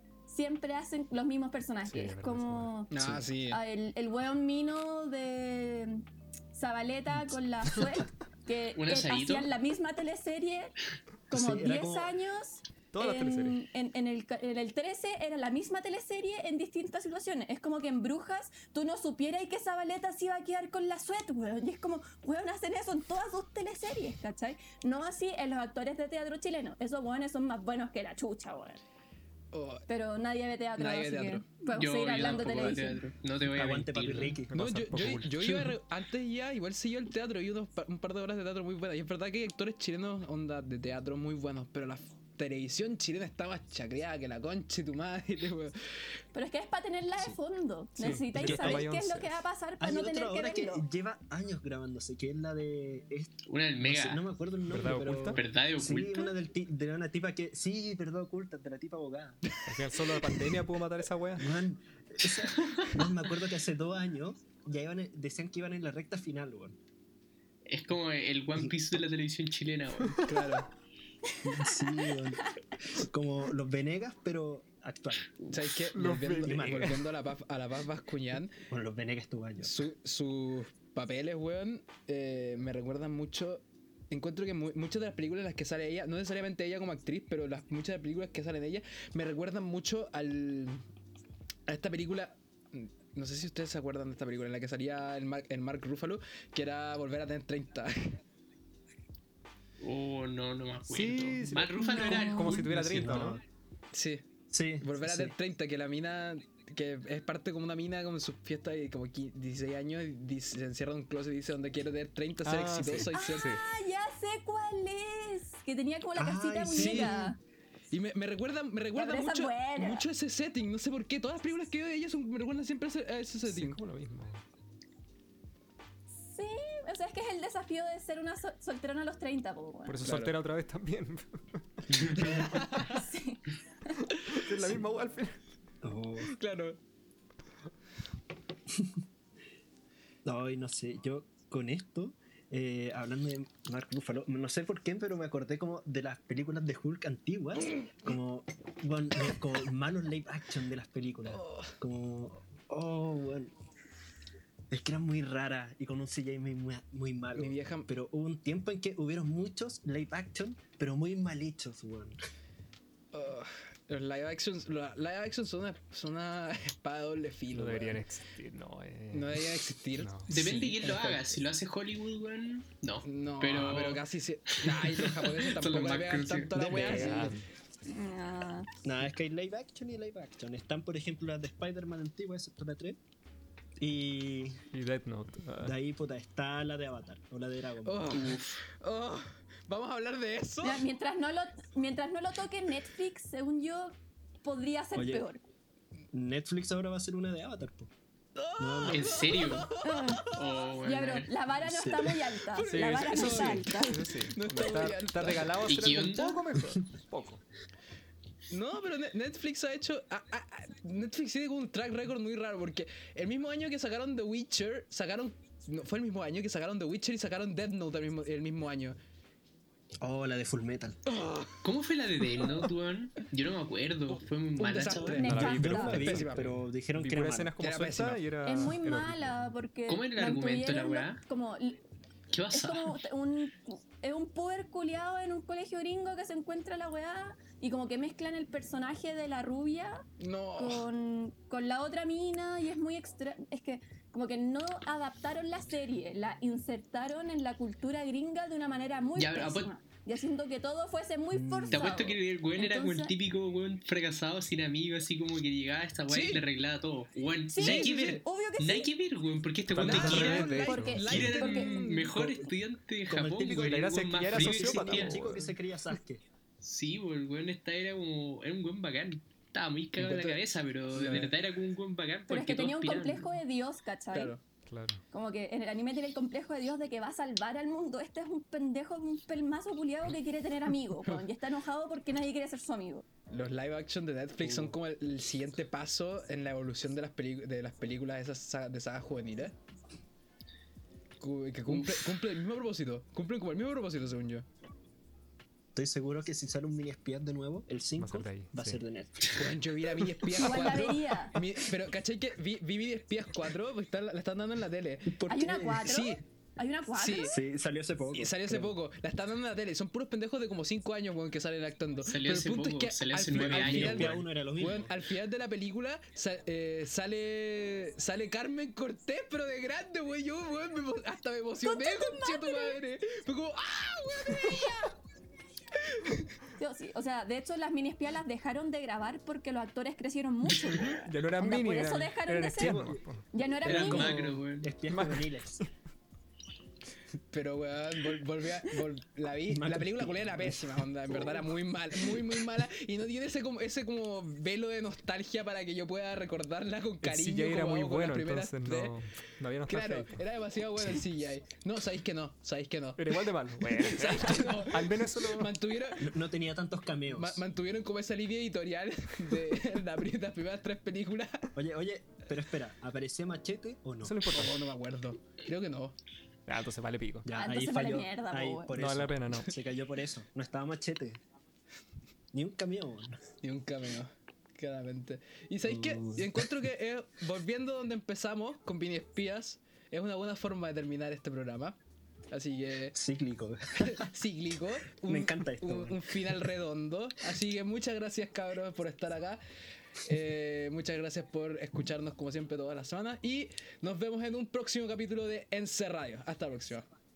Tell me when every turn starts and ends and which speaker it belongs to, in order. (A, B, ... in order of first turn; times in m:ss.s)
0:00.3-0:02.9 A
0:01.9-0:03.2 B
0:02.9-0:03.6 C
0:03.5-0:10.8 A
0:08.8-0:09.5 D
0:11.3-0:28.8 A
0:11.3-0:12.2 E
0:12.9-0:13.6 B
0:29.5-0:29.9 C
0:29.9-0:33.0 A
0:30.8-0:31.5 C
0:31.7-0:34.4 D
0:33.5-0:34.5 E
0:34.5-0:35.8 B
0:34.5-0:45.8 C
0:46.3-0:50.8 A
0:48.0-0:49.4 B
0:48.3-0:48.9 E
0:49.8-0:59.4 E
0:53.5-0:54.3 D
0:54.7-0:55.4 B
0:55.3-0:56.4 D
0:59.6-1:00.4 C
0:59.7-1:01.6 B
1:01.4-1:06.8 E
1:07.7-1:10.3 D
1:10.2-1:10.7 C
1:11.4-1:15.4 E
1:15.5-1:18.6 C
1:15.9-1:17.0 B
1:16.4-1:17.0 E
1:18.7-1:19.9 E
1:19.6-1:30.8 C
1:31.7-1:38.2 C
1:39.8-1:43.2 D
1:40.9-1:43.4 B
1:41.8-1:42.6 A
1:42.7-1:43.4 E
1:43.9-1:44.3 C
1:44.5-1:45.3 E
1:44.8-1:53.5 C
1:52.4-1:53.6 B
1:53.1-1:57.4 A
1:56.2-1:57.4 E
1:56.7-1:57.3 C
1:57.9-2:03.8 C
1:59.0-2:00.0 A
2:03.4-2:04.4 B
2:06.3-2:10.0 A
2:09.9-2:12.7 B
2:10.0-2:10.4 C
2:11.9-2:12.6 E
2:12.2-2:13.0 C
2:12.4-2:13.9 A
2:14.2-2:15.4 B
2:15.8-2:16.3 E
2:16.2-2:16.8 C
2:18.7-2:19.0 E
2:20.2-2:33.5 E
2:31.3-2:31.8 C
2:34.7-2:42.2 E
2:37.4-2:37.9 C
2:43.1-2:48.0 C
2:47.5-2:50.3 B
2:49.1-2:51.4 C
2:50.3-2:57.0 D
2:53.0-2:57.4 C
2:56.5-2:57.4 E
2:56.8-2:57.4 B
2:57.8-2:58.7 A
2:58.8-3:03.0 E
3:03.8-3:04.6 E
3:04.7-3:05.8 B
3:05.6-3:08.2 E
3:07.8-3:10.9 C
3:08.1-3:08.6 D
3:10.6-3:15.4 A
3:14.9-3:15.3 E
3:16.1-3:17.9 E
3:18.4-3:20.5 C
3:18.6-3:19.1 E
3:18.9-3:21.3 D
3:19.8-3:20.3 A
3:20.8-3:24.0 A
3:21.6-3:22.3 E
3:22.5-3:25.7 C
3:22.6-3:27.4 B
3:25.7-3:26.4 D
3:28.5-3:39.0 C
3:40.0-3:41.1 E
3:41.1-3:41.6 C
3:41.6-3:45.2 D
3:44.6-3:46.6 C
3:45.2-3:46.0 A
3:45.2-3:49.5 B
3:45.6-3:47.6 E
3:47.6-3:48.2 C
3:48.4-3:51.8 A
3:49.9-3:51.2 D
3:52.3-3:53.0 D
3:52.5-4:00.1 A
4:00.2-4:00.9 C
4:00.6-4:13.1 A
4:09.2-4:09.7 D
4:11.3-4:12.0 E
4:11.7-4:25.2 D
4:16.1-4:16.4 C
4:17.5-4:18.9 A
4:17.6-4:18.1 C
4:19.7-4:21.3 B
4:19.8-4:22.2 C
4:20.6-4:21.8 A
4:22.1-4:22.5 E
4:23.1-4:26.2 E
4:23.6-4:25.5 B
4:26.6-4:33.4 D
4:30.0-4:30.4 C
4:30.9-4:31.3 C
4:32.3-4:34.3 A
4:34.1-4:34.4 C
4:34.7-4:35.0 B
4:35.1-4:43.1 A
4:43.3-4:49.6 C
4:44.4-4:44.8 E
4:51.2-4:54.5 C
4:51.7-4:52.0 D
4:55.8-4:59.3 E
4:58.0-4:58.8 B
4:59.3-5:05.2 C
5:00.3-5:01.4 A
5:05.1-5:05.9 E
5:05.3-5:07.4 A
5:05.8-5:06.2 C
5:06.9-5:07.4 C
5:07.2-5:08.7 E
5:08.1-5:24.9 C
5:12.0-5:14.2 D
5:13.3-5:14.9 E
5:21.6-5:22.8 A
5:24.3-5:24.9 A
5:25.8-5:26.3 C
5:26.6-5:34.2 A
5:30.6-5:34.0 B
5:32.6-5:33.0 E
5:33.6-5:34.7 D
5:33.7-5:35.6 E
5:34.9-5:35.6 B
5:37.3-5:49.0 C
5:39.5-5:41.5 E
5:47.0-5:50.2 B
5:49.7-5:56.2 C
5:53.0-5:55.6 B
5:56.0-5:57.4 E
5:57.1-6:01.5 C
6:01.6-6:04.3 E
6:04.0-6:04.6 B
6:04.3-6:06.0 C
6:06.5-6:07.3 B
6:07.2-6:11.2 E
6:07.4-6:08.7 A
6:08.7-6:09.6 B
6:12.3-6:13.2 E
6:13.4-6:21.8 C
6:15.6-6:16.5 E
6:22.3-6:23.0 C
6:22.9-6:24.1 E
6:23.8-6:29.4 C
6:25.1-6:26.4 E
6:30.0-6:36.9 C